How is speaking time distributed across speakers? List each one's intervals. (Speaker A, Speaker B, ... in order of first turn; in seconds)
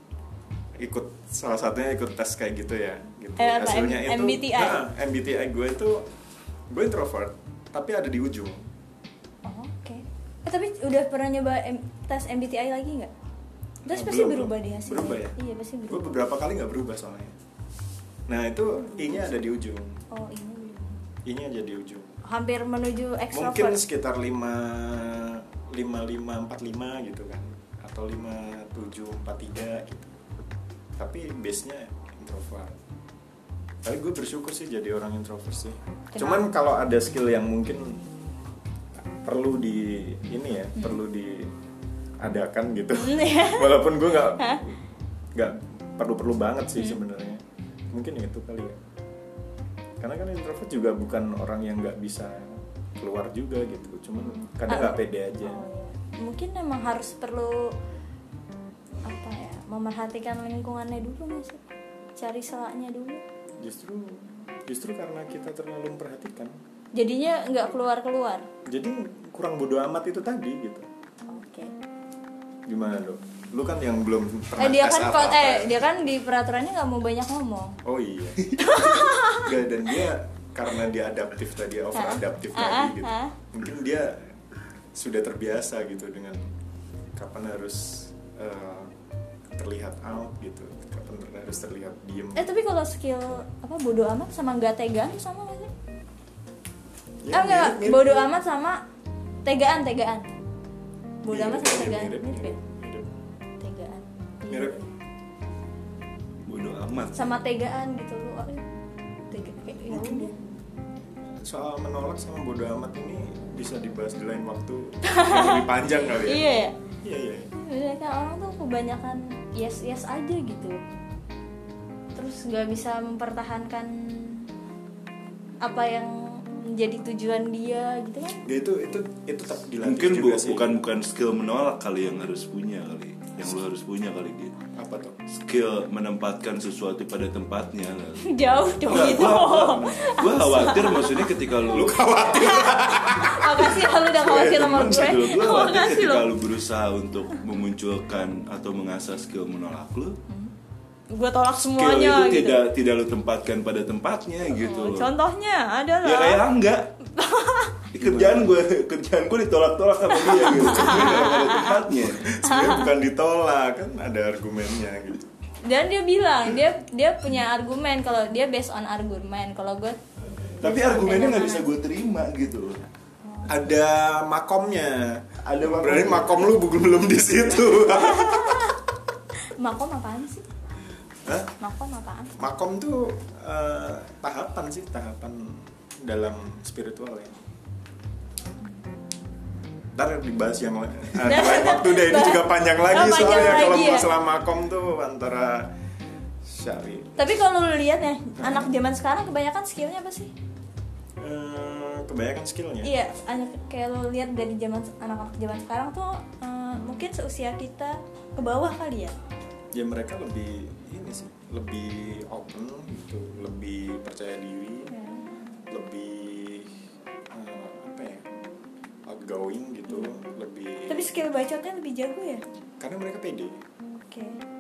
Speaker A: 0.8-6.1, 6.7-8.6, 13.9-15.4, 15.9-17.4, 18.3-20.0, 21.3-22.1, 23.3-30.1, 31.0-32.8, 33.8-38.0, 39.2-41.5, 42.2-44.8, 45.4-48.8, 50.0-55.6, 63.6-66.5, 68.7-70.9, 72.7-75.8, 77.8-84.2, 85.0-86.4, 87.2-88.9, 89.5-92.5, 97.2-98.3, 101.3-103.1, 104.5-104.8, 109.9-110.4, 111.4-116.4, 117.0-117.5, 128.4-130.8, 134.8-135.2, 139.0-140.1, 141.7-143.9, 158.0-158.5, 162.2-165.3, 173.5-178.7, 181.3-181.5, 182.4-187.4, 190.0-195.7, 196.4-197.2, 198.4-198.7, 201.2-202.9, 209.7-214.9, 215.7-216.7, 217.3-218.3, 219.1-221.1, 222.8-223.6
Speaker B: 3.4-4.8, 9.4-13.1, 13.9-16.2, 18.8-19.4, 20.1-21.0, 22.2-23.8, 36.1-36.5, 43.0-43.9, 54.7-57.8, 59.0-61.6, 62.2-63.2, 67.0-68.5, 71.3-71.7, 74.6-77.8, 78.6-79.5, 82.0-83.3, 92.4-95.7, 97.3-98.8, 99.5-100.3, 101.2-102.5, 103.6-104.9, 107.2-108.6, 109.3-110.3, 115.1-116.8, 117.5-120.8, 122.2-124.5, 125.6-128.4, 138.2-141.3, 142.3-146.3, 151.1-152.7, 154.5-156.5, 157.1-157.8, 160.1-161.9, 162.4-162.9, 165.7-170.0, 170.6-171.7, 173.2-173.5, 178.0-178.8, 179.5-180.5, 181.6-182.3, 191.2-194.1, 197.2-200.3, 202.8-209.1, 214.9-215.2, 220.9-222.4, 224.1-224.4
Speaker C: 106.5-107.4, 129.8-134.6, 135.3-138.3, 138.8-142.2, 144.1-150.2, 151.8-155.1, 156.0-156.9, 157.9-162.2, 170.6-172.8, 175.4-176.5